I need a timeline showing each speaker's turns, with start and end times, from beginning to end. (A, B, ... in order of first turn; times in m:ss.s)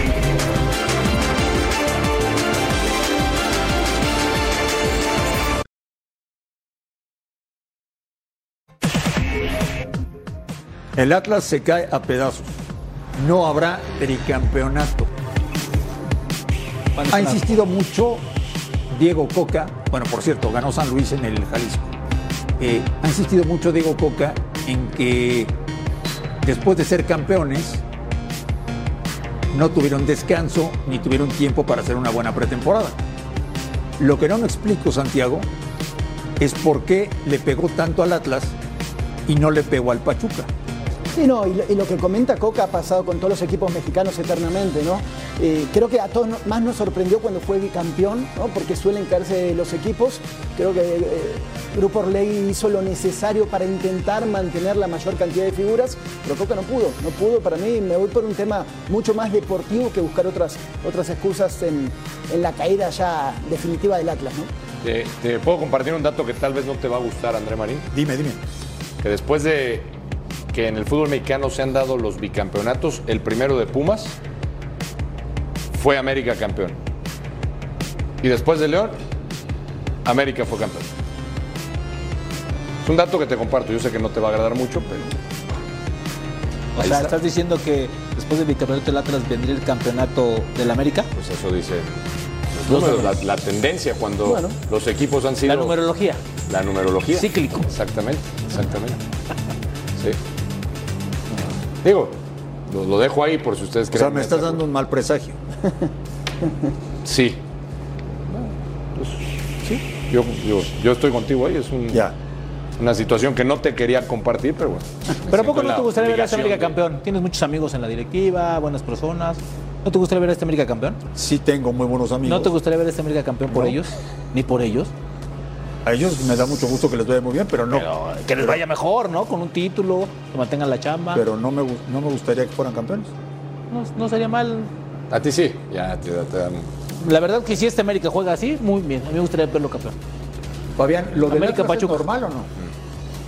0:11.0-0:12.6 A
0:13.2-0:15.1 A
0:17.0-0:17.6 B
0:17.1-0:18.3 A
0:18.9-0:21.9 A
0:22.6-0:25.5 A
0:26.4-0:27.8 A
0:29.5-0:33.0 A
0:34.0-0:35.5 A
0:36.4-0:38.6 A
0:39.3-0:40.5 A
0:41.2-1:04.5 C
1:04.8-1:07.9 D
1:07.9-1:08.4 A
1:09.0-1:09.9 D
1:10.5-1:14.2 D
1:15.7-1:16.8 D
1:18.2-1:19.0 D
1:20.0-1:20.9 D
1:22.8-1:25.2 D
1:26.8-1:31.1 B
1:26.8-1:27.1 D
1:31.1-1:32.0 D
1:32.6-1:35.8 D
1:32.7-1:33.1 B
1:35.4-1:36.2 B
1:36.5-1:39.0 D
1:37.1-1:37.7 B
1:41.8-1:42.2 D
1:42.7-1:44.6 D
1:43.9-1:45.4 A
1:47.0-1:47.4 D
1:48.3-1:49.2 D
1:49.9-1:52.1 D
1:52.8-1:56.8 D
1:55.3-2:01.0 B
2:01.2-2:02.5 A
2:02.2-2:04.9 B
2:03.5-2:03.8 A
2:05.8-2:08.6 A
2:07.7-2:11.2 B
2:11.1-2:13.1 A
2:13.7-2:14.7 B
2:15.1-2:16.7 D
2:17.0-2:20.0 B
2:20.8-2:22.5 A
2:21.3-2:22.1 B